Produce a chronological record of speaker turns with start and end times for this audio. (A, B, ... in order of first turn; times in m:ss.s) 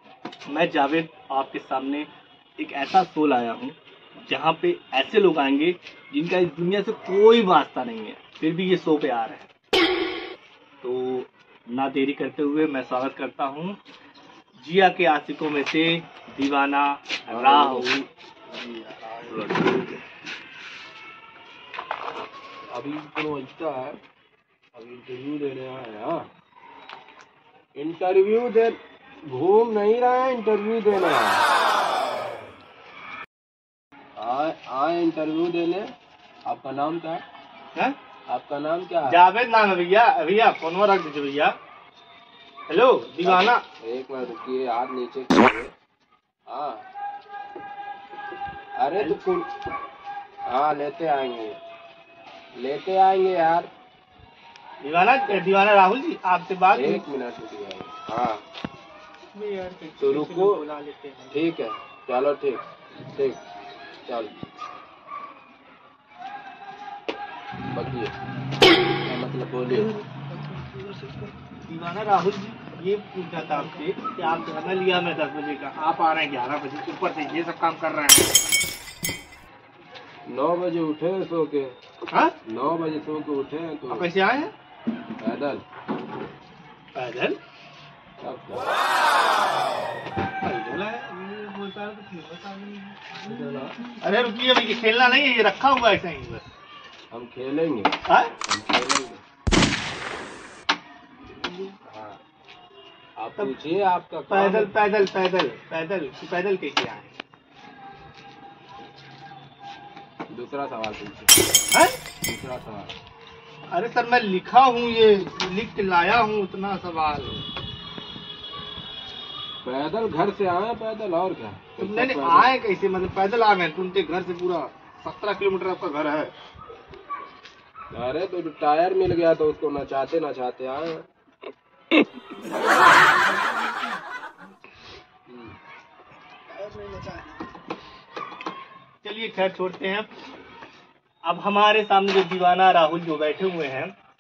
0:00.5-0:02.1 A
0:02.6-0:09.5 A
0:10.8-0:13.8 A
0:14.6-0:18.0 A
0:17.3-0:18.0 B
0:18.5-0:19.7 B
0:19.3-0:19.8 A
0:22.7-0:24.0 B
0:24.7-0:26.3 B
0:27.8-0:31.4 B
0:34.2-0:35.9 B
0:36.5-0:37.2 B
0:38.3-0:39.2 B
0:39.1-0:41.5 A
0:42.7-0:43.6 A
0:43.2-0:45.7 B
0:46.5-0:46.8 B
0:48.8-0:49.4 B
0:49.0-0:49.4 A
0:50.5-0:51.6 B
0:52.6-0:53.7 B
0:54.8-0:57.0 A
0:56.7-0:58.4 B
0:59.3-1:01.5 A
1:00.0-1:00.6 B
1:01.3-1:03.4 B
1:04.1-1:04.3 B
1:07.7-1:08.1 B
1:09.0-1:09.9 B
1:10.4-1:18.4 A
1:20.3-1:21.7 B
1:22.1-1:22.4 A
1:22.5-1:24.1 B
1:23.9-1:24.5 A
1:25.2-1:25.6 B
1:27.0-1:27.4 A
1:28.2-1:28.7 B
1:30.4-1:36.4 A
1:33.2-1:33.8 B
1:37.1-1:39.2 B
1:38.1-1:38.3 A
1:41.6-1:42.2 B
1:43.2-1:44.7 B
1:44.3-1:47.1 A
1:50.3-1:51.3 B
1:51.7-1:52.0 A
1:52.2-1:52.9 B
1:53.7-1:57.5 A
1:59.6-2:02.5 B
2:01.8-2:06.3 A
2:07.9-2:11.0 B
2:15.3-2:15.6 B
2:19.0-2:20.1 A
2:21.2-2:23.9 A